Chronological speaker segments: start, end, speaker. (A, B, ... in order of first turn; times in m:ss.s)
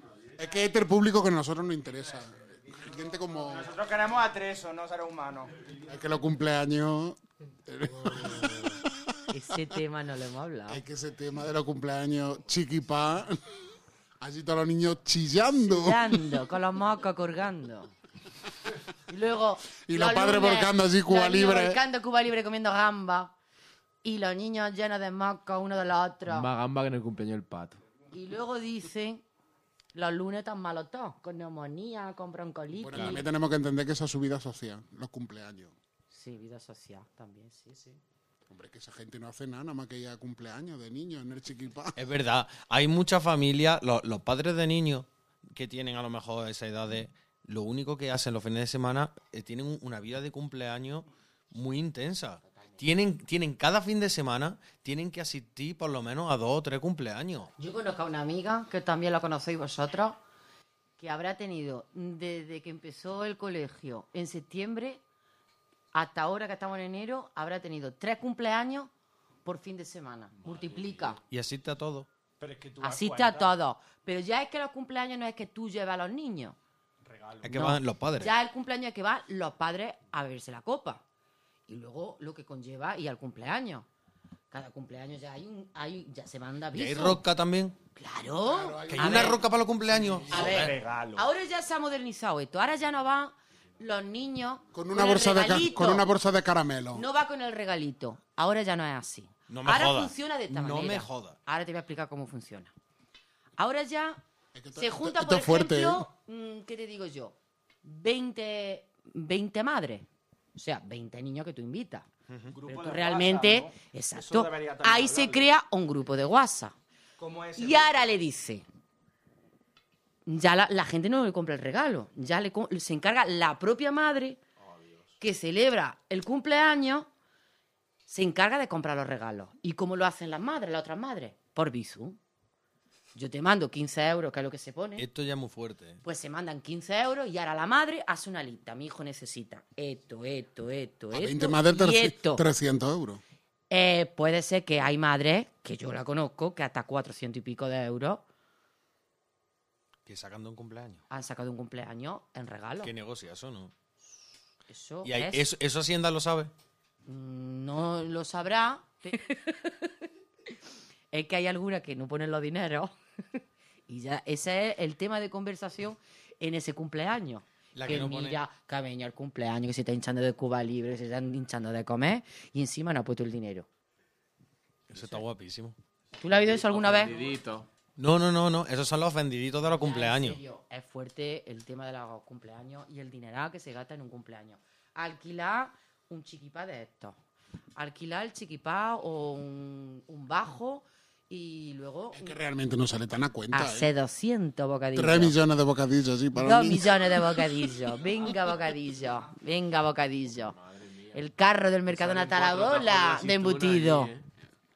0:00.4-0:03.7 A
0:03.5-0:05.5 B
0:05.8-0:09.2 A
0:09.3-0:10.8 C
0:10.7-0:13.5 A
0:14.2-0:16.3 A
0:15.6-0:17.9 C
0:19.1-0:23.3 C
0:19.9-0:21.8 A
0:24.0-0:26.5 C
0:26.3-0:27.8 D
0:28.1-0:29.2 C
0:29.9-0:33.3 C
0:32.8-0:35.7 A
0:36.1-0:38.0 C
0:38.5-0:42.0 A
0:42.0-0:57.5 E
0:52.5-0:52.8 C
0:57.6-1:00.2 C
1:01.0-1:05.0 C
1:05.9-1:08.9 C
1:09.4-1:11.2 C
1:11.2-1:12.1 E
1:12.4-1:13.6 B
1:12.8-1:16.6 C
1:17.0-1:17.5 B
1:17.4-1:18.3 E
1:17.5-1:21.0 C
1:21.7-1:23.9 C
1:24.5-1:27.2 C
1:26.7-1:27.8 E
1:27.9-1:29.4 C
1:28.4-1:30.5 A
1:28.9-1:30.7 E
1:30.3-1:36.0 C
1:30.3-1:31.2 B
1:34.7-1:37.0 A
1:36.9-1:42.7 C
1:39.5-1:41.4 E
1:43.6-1:44.2 C
1:44.5-1:46.1 A
1:44.7-1:52.1 C
1:52.5-1:55.4 B
1:52.6-1:56.8 C
1:57.2-1:57.9 B
1:57.6-1:58.6 C
2:00.2-2:04.4 C
2:05.2-2:07.1 C
2:08.1-2:12.2 C
2:13.1-2:15.0 C
2:15.0-2:16.0 E
2:16.0-2:22.4 C
2:21.1-2:23.2 A
2:23.7-2:28.2 C
2:30.0-2:31.0 E
2:31.1-2:32.9 C
2:32.8-2:33.7 E
2:34.7-2:35.4 C
2:35.0-2:36.5 E
2:37.0-2:39.9 C
2:41.1-2:53.7 C
2:47.7-2:48.4 E
2:54.9-2:55.8 E
2:54.9-2:55.2 C
2:56.2-2:57.3 C
2:56.3-2:57.7 D
2:58.0-3:00.4 E
2:59.8-3:07.2 C
3:07.8-3:12.4 C
3:12.1-3:13.9 A
3:13.5-3:15.4 C
3:14.9-3:17.1 A
3:16.3-3:20.6 C
3:20.6-3:21.2 D
3:21.1-3:24.1 C
3:21.9-3:24.2 D